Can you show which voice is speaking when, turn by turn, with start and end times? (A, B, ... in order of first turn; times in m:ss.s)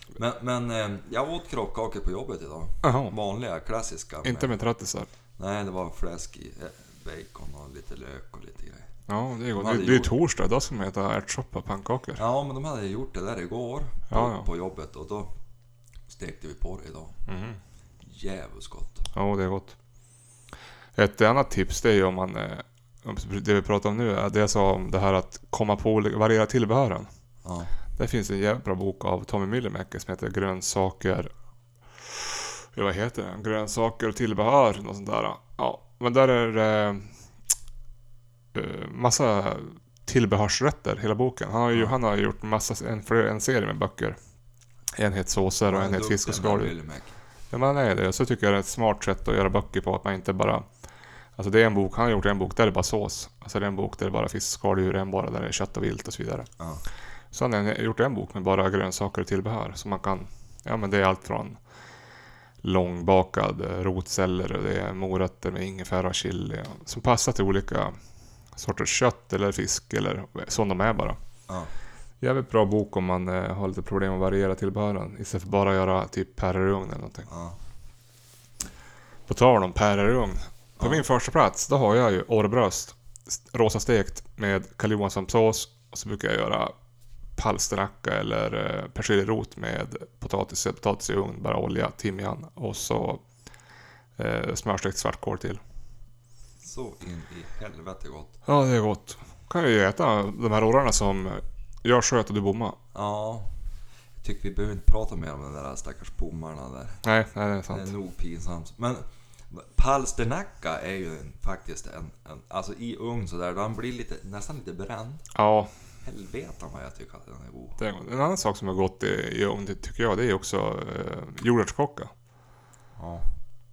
0:00.1-0:04.5 A
0:02.8-0:03.1 B
0:04.2-0:05.1 B
0:05.4-0:08.9 A
0:09.1-0:12.2 B
0:09.5-0:10.1 A
0:12.2-0:15.3 A
0:14.1-0:14.4 B
0:16.1-0:17.2 A
0:17.3-0:17.6 B
0:18.0-0:19.1 A
0:19.1-0:19.8 B
0:20.9-0:27.1 B
0:27.4-0:27.7 A
0:28.0-0:31.3 B
0:32.0-0:37.1 B
0:38.5-0:44.2 B
0:44.9-0:46.7 B
0:45.7-0:47.2 A
0:47.5-0:50.7 B
0:51.4-0:56.5 B
0:56.6-0:56.8 A
0:57.3-1:01.6 B
1:02.6-1:07.9 B
1:08.5-1:11.2 B
1:11.5-1:11.7 A
1:12.2-1:17.3 B
1:17.3-1:17.6 A
1:19.3-1:26.7 B
1:20.8-1:21.0 A
1:27.4-1:33.2 B
1:34.2-1:35.6 B
1:36.6-1:38.4 A
1:38.4-1:42.8 B
1:42.9-1:43.6 A
1:44.2-1:47.0 A
1:47.0-1:47.9 B
1:47.7-1:55.2 A
1:55.3-1:55.7 B
1:56.0-1:57.8 A
1:57.8-2:02.1 B
2:03.0-2:03.3 A